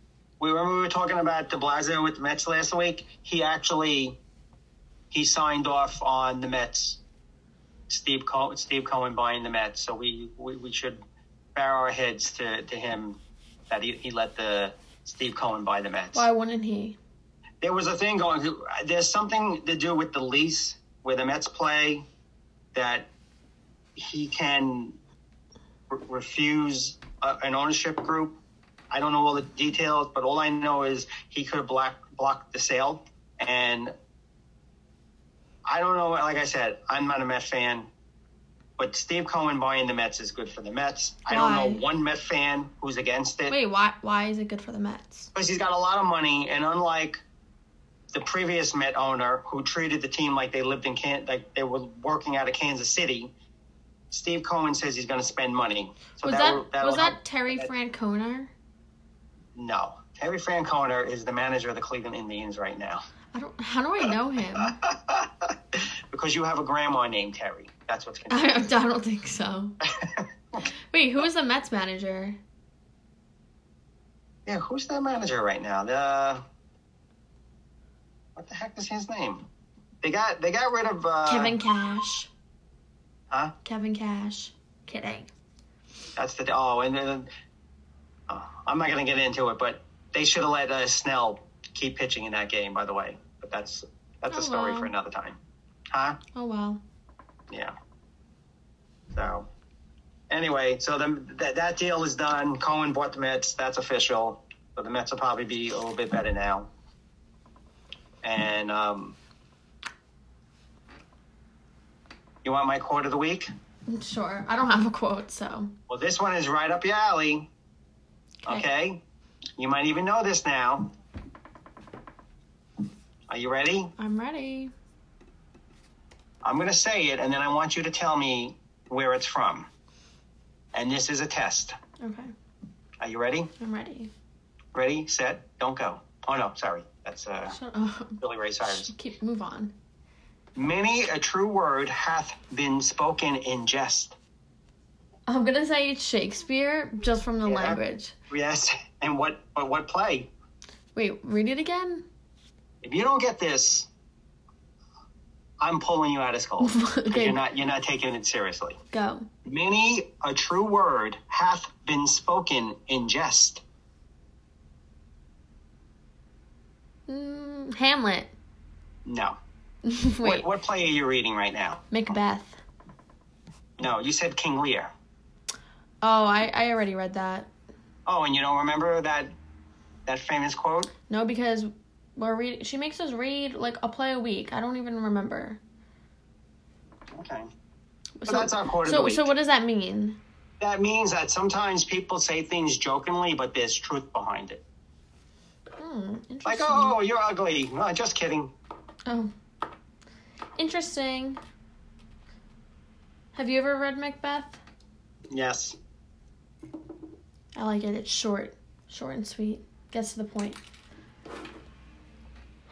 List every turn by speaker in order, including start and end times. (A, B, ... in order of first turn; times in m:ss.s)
0:00.4-0:04.2 A
0:05.1-0:07.0 A
0:07.9-0:11.0 A
0:11.6-0:16.3 A
0:16.1-0:17.0 B
0:17.6-0:22.1 A
0:22.7-0:23.1 A
0:24.0-0:25.0 A
0:25.9-0:28.4 A
0:28.9-0:33.9 A
0:35.7-0:37.9 A
0:38.8-0:43.6 A
0:41.3-0:41.8 B
0:43.5-0:45.3 B
0:45.4-0:47.2 A
0:48.1-0:53.3 A
0:54.1-0:57.7 A
0:56.2-0:58.5 B
0:59.6-1:03.0 A
1:03.3-1:04.8 B
1:04.6-1:08.6 A
1:08.3-1:09.8 B
1:10.0-1:10.3 A
1:10.9-1:12.4 B
1:14.5-1:16.4 A
1:18.4-1:19.5 A
1:20.0-1:21.6 A
1:21.3-1:22.3 B
1:23.6-1:25.3 B
1:26.2-1:27.3 A
1:28.3-1:35.4 A
1:34.3-1:34.9 B
1:35.9-1:36.2 A
1:36.3-1:36.8 B
1:39.1-1:39.5 A
1:40.3-1:46.7 A
1:48.2-1:49.2 A
1:52.4-1:53.5 A
1:53.9-1:55.7 B
1:55.9-1:57.5 A
1:58.4-1:59.0 A
1:59.6-2:00.9 A
2:03.3-2:03.9 A
2:04.0-2:04.7 B
2:06.4-2:09.7 A
2:10.7-2:11.8 A
2:12.0-2:12.3 B
2:13.0-2:13.5 A
2:13.6-2:14.1 B
2:14.7-2:17.6 A
2:17.5-2:19.7 B
2:18.2-2:18.9 A
2:20.6-2:24.2 A
2:25.3-2:28.2 B
2:27.4-2:27.8 A
2:28.3-2:30.3 A
2:31.0-2:32.0 B
2:32.8-2:33.9 A
2:35.6-2:38.8 A
2:36.6-2:37.4 B
2:38.9-2:39.3 B
2:39.4-2:43.6 A
2:47.1-2:48.3 B
2:49.0-2:49.4 A
2:49.8-2:50.5 B
2:50.2-2:52.2 A
2:51.9-2:52.6 B
2:53.8-2:54.9 A
2:56.0-2:57.5 B
2:58.1-2:59.3 A
3:00.1-3:00.9 A
3:01.1-3:05.6 B
3:07.1-3:07.5 A
3:08.2-3:10.2 B
3:08.3-3:09.3 A
3:10.6-3:14.6 A
3:15.8-3:17.0 B
3:16.4-3:18.5 A
3:19.1-3:19.3 B
3:20.6-3:21.4 B
3:23.3-3:24.6 B
3:25.3-3:25.8 A
3:27.6-3:30.6 B